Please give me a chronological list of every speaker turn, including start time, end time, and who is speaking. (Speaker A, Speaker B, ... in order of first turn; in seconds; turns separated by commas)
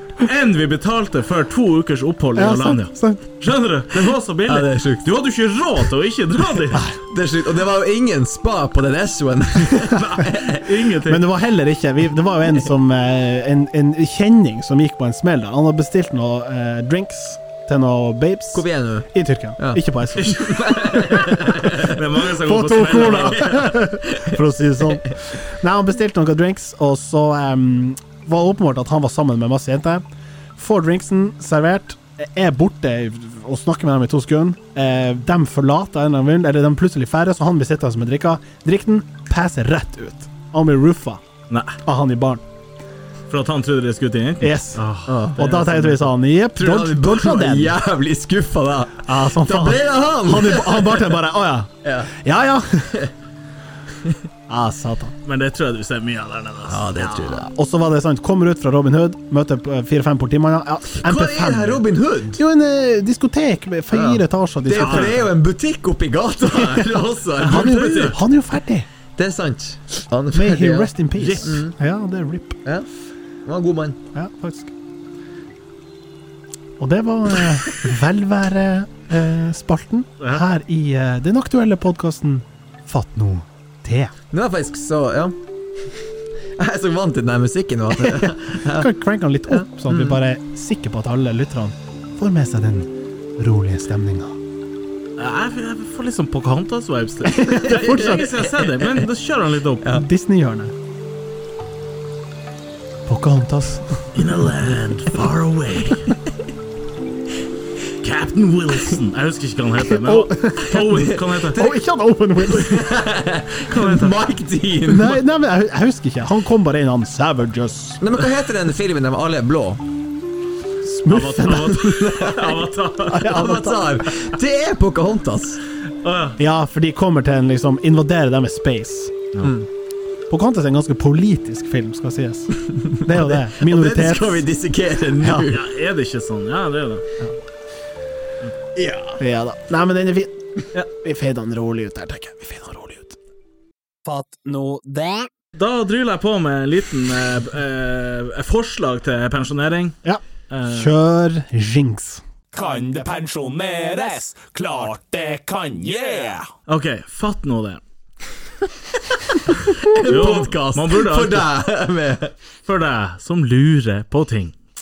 Speaker A: 0.2-6.9, Speaker B: 2.4-3.2, Speaker C: 3.9-5.1, Speaker C: 7.1-10.8, Speaker B: 9.9-10.2, Speaker A: 10.1-11.3, Speaker B: 11.0-21.3, Speaker C: 18.5-19.1, Speaker C: 19.6-22.0, Speaker A: 20.2-23.8, Speaker B: 22.4-30.0, Speaker C: 23.1-23.6, Speaker C: 24.1-24.3, Speaker B: 30.6-41.2, Speaker A: 41.5-41.8, Speaker B: 41.8-42.4, Speaker A: 43.3-46.1, Speaker B: 44.4-44.8, Speaker C: 45.1-45.4, Speaker B: 45.4-47.8, Speaker C: 46.5-51.1, Speaker B: 49.0-53.1, Speaker C: 51.8-52.1, Speaker B: 54.5-55.1, Speaker A: 55.2-56.9, Speaker C: 56.7-57.5, Speaker B: 57.0-65.2, Speaker C: 60.9-62.4, Speaker C: 63.9-68.2, Speaker A: 64.7-65.2, Speaker B: 66.5-68.9, Speaker A: 67.4-68.2, Speaker C: 69.2-70.9, Speaker B: 70.3-72.6, Speaker A: 71.2-71.6, Speaker C: 71.4-71.7, Speaker C: 73.4-74.0, Speaker B: 74.1-74.7, Speaker B: 76.8-84.1, Speaker C: 84.3-85.3, Speaker C: 86.6-88.9, Speaker B: 88.1-94.3, Speaker C: 89.5-90.2, Speaker A: 95.2-99.9, Speaker B: 97.2-98.3, Speaker C: 97.6-99.0, Speaker B: 99.9-100.7, Speaker B: 103.0-104.0, Speaker A: 104.1-106.1, Speaker A: 108.0-111.7, Speaker B: 109.9-111.0, Speaker C: 110.7-111.7, Speaker B: 111.5-112.9, Speaker C: 112.5-115.2, Speaker A: 113.6-114.2, Speaker B: 114.8-118.0, Speaker C: 118.0-119.8, Speaker B: 120.8-121.8, Speaker A: 121.1-123.6, Speaker C: 121.7-122.6, Speaker B: 123.1-123.9, Speaker C: 123.2-125.6, Speaker A: 126.0-126.4, Speaker B: 126.4-129.1, Speaker C: 129.4-129.7, Speaker B: 130.3-134.5, Speaker C: 132.7-135.6, Speaker B: 135.2-135.5, Speaker A: 135.4-137.0, Speaker C: 138.8-139.2, Speaker B: 139.2-143.2, Speaker B: 144.0-145.3, Speaker A: 145.5-150.0, Speaker B: 150.0-152.2, Speaker A: 150.5-150.9, Speaker D: 152.5-156.4, Speaker A: 156.7-157.8, Speaker C: 159.5-162.3, Speaker A: 159.9-161.5, Speaker A: 162.7-164.6